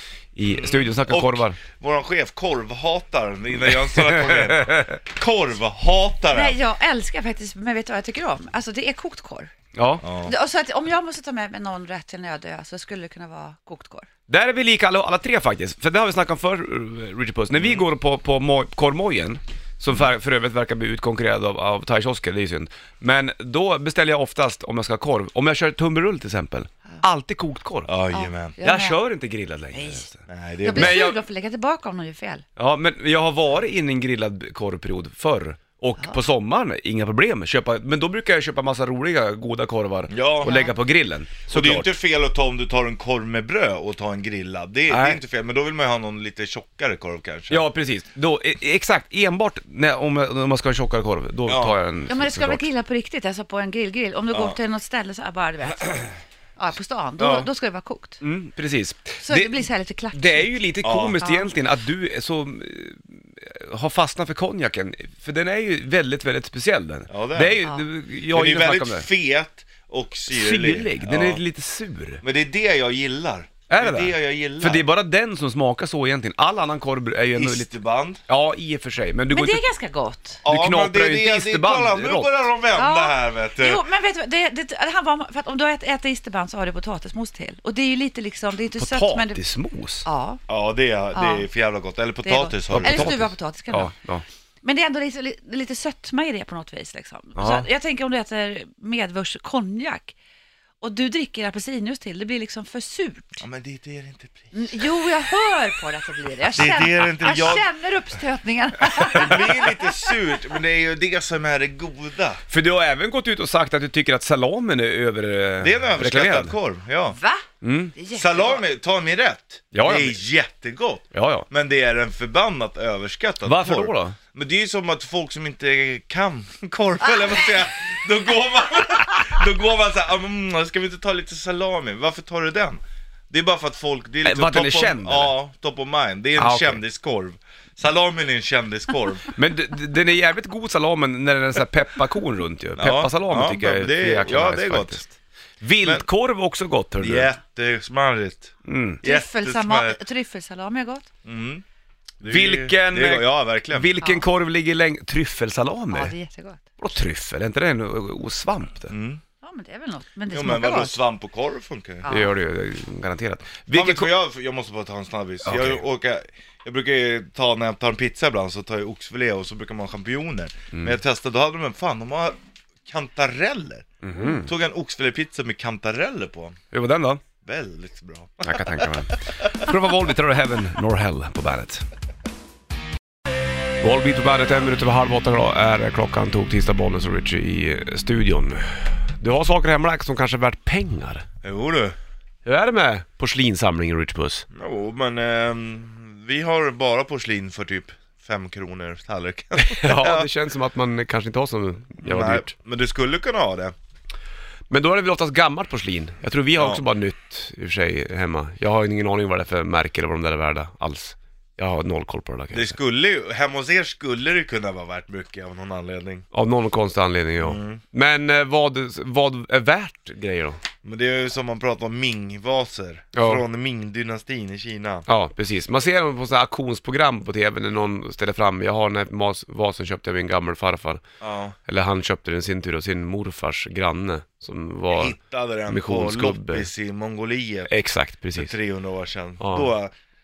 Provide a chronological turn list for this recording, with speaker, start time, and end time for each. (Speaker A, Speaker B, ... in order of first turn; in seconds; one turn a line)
Speaker A: 0.3-1.6
Speaker B: 0.5-6.6
Speaker A: 3.9-5.0
Speaker C: 6.3-9.5
Speaker A: 9.7-10.0
Speaker B: 10.0-10.3
Speaker C: 10.2-14.1
Speaker A: 14.3-27.9
Speaker B: 17.5-17.9
Speaker B: 27.9-28.6
Speaker C: 28.1-29.0
Speaker A: 28.6-30.2
Speaker C: 29.7-30.1
Speaker B: 30.3-31.0
Speaker C: 30.6-32.4
Speaker A: 30.7-31.1
Speaker A: 32.5-41.9
Speaker B: 40.1-40.5
Speaker C: 40.5-40.7
Speaker B: 41.5-47.7
Speaker A: 44.9-45.2
Speaker A: 47.5-52.6
Speaker B: 51.5-51.8
Speaker C: 52.1-58.2
Speaker B: 54.3-54.6
Speaker B: 57.2-57.5
Speaker A: 58.2-69.1
Speaker C: 59.2-60.5
Speaker B: 60.8-61.2
Speaker C: 61.2-61.5
Speaker B: 67.1-67.6
Speaker B: 68.3-71.4
Speaker A: 70.3-72.2
Speaker B: 72.2-74.9
Speaker A: 73.7-77.7
Speaker B: 77.3-78.2
Speaker A: 78.3-79.6
Speaker C: 79.3-80.4
Speaker B: 80.4-83.9
Speaker A: 80.4-82.4
Speaker C: 82.8-89.4
Speaker A: 88.8-90.1
Speaker C: 90.0-90.4
Speaker B: 90.5-93.2
Speaker C: 91.1-91.5
Speaker C: 92.2-93.9
Speaker A: 92.7-94.2
Speaker C: 94.6-100.1
Speaker A: 97.3-97.7
Speaker C: 100.8-103.4
Speaker B: 103.4-104.8
Speaker C: 104.5-109.9
Speaker B: 106.5-107.7
Speaker B: 109.1-112.4
Speaker A: 112.5-116.5
Speaker B: 115.6-117.2
Speaker C: 117.1-118.6
Speaker A: 117.6-117.9
Speaker B: 118.1-139.3
Speaker A: 119.7-120.2
Speaker A: 121.1-121.5
Speaker A: 123.4-124.2
Speaker A: 134.2-135.3
Speaker A: 136.4-136.8
Speaker A: 139.3-147.3
Speaker B: 142.8-145.0
Speaker B: 147.0-150.0
Speaker A: 148.6-149.0
Speaker C: 149.0-151.1
Speaker B: 151.2-151.6
Speaker B: 152.2-153.9
Speaker A: 152.2-156.1
Speaker C: 154.0-154.2
Speaker C: 155.9-156.6
Speaker A: 156.8-158.9
Speaker B: 158.9-159.2
Speaker C: 159.4-161.0
Speaker B: 160.3-162.1
Speaker C: 162.0-162.3
Speaker A: 162.1-164.1
Speaker B: 163.7-176.6
Speaker A: 165.4-165.8
Speaker A: 170.7-171.0
Speaker A: 174.0-174.5
Speaker A: 176.7-177.2
Speaker B: 177.4-179.7
Speaker A: 178.4-181.9
Speaker A: 183.8-191.2
Speaker B: 191.4-191.9
Speaker A: 192.4-194.4
Speaker B: 194.5-200.3
Speaker A: 199.6-202.5
Speaker B: 202.0-203.7
Speaker A: 204.7-212.8
Speaker B: 206.6-206.8
Speaker B: 212.5-216.2
Speaker A: 216.3-220.6
Speaker B: 217.4-217.8
Speaker B: 220.8-225.1
Speaker A: 223.1-223.4
Speaker A: 225.1-231.0
Speaker B: 231.2-231.6
Speaker A: 231.6-235.2
Speaker B: 234.9-237.7
Speaker A: 235.7-236.7
Speaker A: 237.7-238.5
Speaker B: 238.3-239.9
Speaker A: 239.4-239.7